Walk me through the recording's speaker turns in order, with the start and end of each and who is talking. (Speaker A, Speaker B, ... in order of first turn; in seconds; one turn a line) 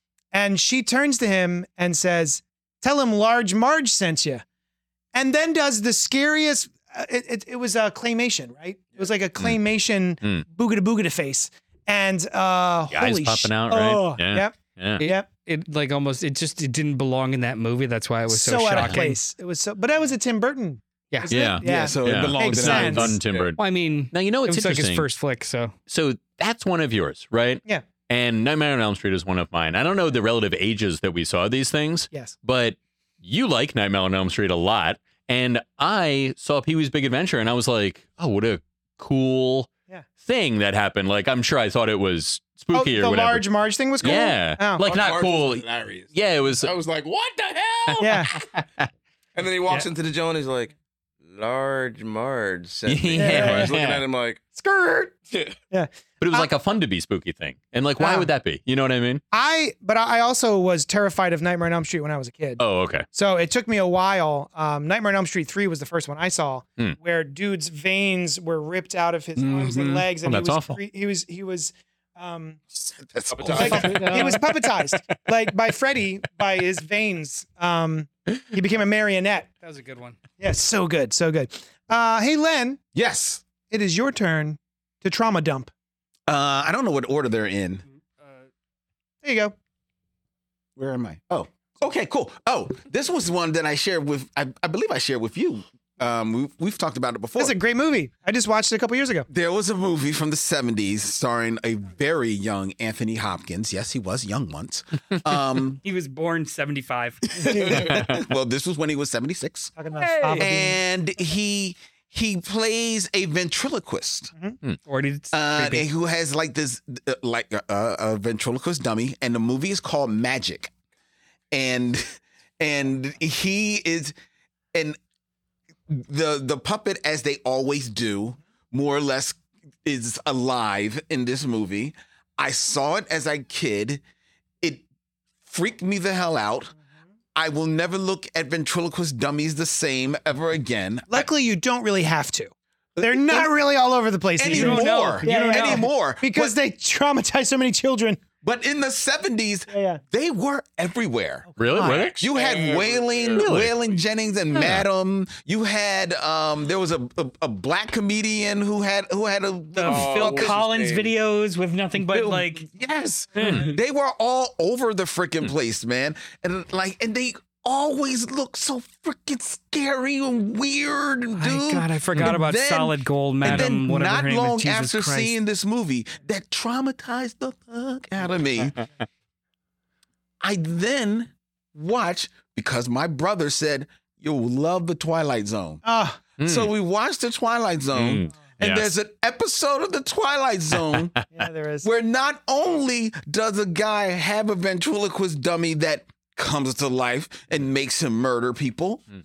Speaker A: 0.3-4.4
Speaker A: 5.1-15.2
Speaker B: 12.9-15.0
Speaker C: 15.0-19.2
Speaker A: 18.3-23.2
Speaker B: 18.8-19.0
Speaker C: 21.1-21.4
Speaker B: 21.3-25.1
Speaker D: 21.6-23.2
Speaker E: 23.1-23.5
Speaker C: 23.6-25.8
Speaker B: 25.9-39.7
Speaker B: 40.2-43.5
Speaker A: 42.7-44.8
Speaker B: 44.0-46.7
Speaker E: 44.0-48.4
Speaker B: 47.9-48.9
Speaker A: 48.0-48.3
Speaker E: 49.4-55.6
Speaker B: 52.9-54.0
Speaker A: 53.2-53.7
Speaker A: 55.7-56.5
Speaker B: 56.2-59.2
Speaker A: 58.0-58.3
Speaker A: 59.3-72.9
Speaker B: 62.6-63.1
Speaker D: 69.4-70.0
Speaker B: 70.2-70.8
Speaker D: 73.0-74.1
Speaker E: 73.3-74.1
Speaker A: 73.5-79.5
Speaker C: 73.6-74.4
Speaker B: 73.9-74.4
Speaker C: 79.6-80.2
Speaker A: 80.4-82.8
Speaker D: 83.0-83.4
Speaker A: 83.7-85.7
Speaker D: 86.3-87.8
Speaker C: 88.0-88.5
Speaker A: 89.2-89.5
Speaker D: 90.8-97.6
Speaker A: 97.4-99.3
Speaker D: 99.3-105.8
Speaker C: 105.8-107.6
Speaker D: 107.4-109.7
Speaker E: 107.5-108.0
Speaker A: 109.8-110.8
Speaker C: 110.0-110.5
Speaker D: 110.3-114.3
Speaker C: 114.8-115.9
Speaker D: 115.3-120.7
Speaker D: 121.5-124.2
Speaker D: 124.7-125.0
Speaker D: 125.9-134.0
Speaker D: 135.4-136.7
Speaker D: 137.3-141.3
Speaker A: 141.1-148.2
Speaker D: 143.0-143.5
Speaker D: 144.4-146.6
Speaker C: 144.5-145.8
Speaker D: 148.4-151.5
Speaker A: 149.7-150.0
Speaker A: 151.6-152.2
Speaker B: 151.6-152.2
Speaker E: 151.8-153.5
Speaker D: 152.2-160.6
Speaker B: 153.4-153.8
Speaker B: 154.6-154.8
Speaker C: 159.7-162.6
Speaker E: 159.8-161.1
Speaker D: 162.0-178.8
Speaker C: 163.4-163.7
Speaker B: 163.4-163.7
Speaker C: 171.4-175.3
Speaker D: 180.4-185.8
Speaker A: 185.8-186.2
Speaker D: 186.4-191.2
Speaker B: 186.4-186.7
Speaker B: 187.9-188.9
Speaker A: 191.3-191.9
Speaker D: 191.8-199.0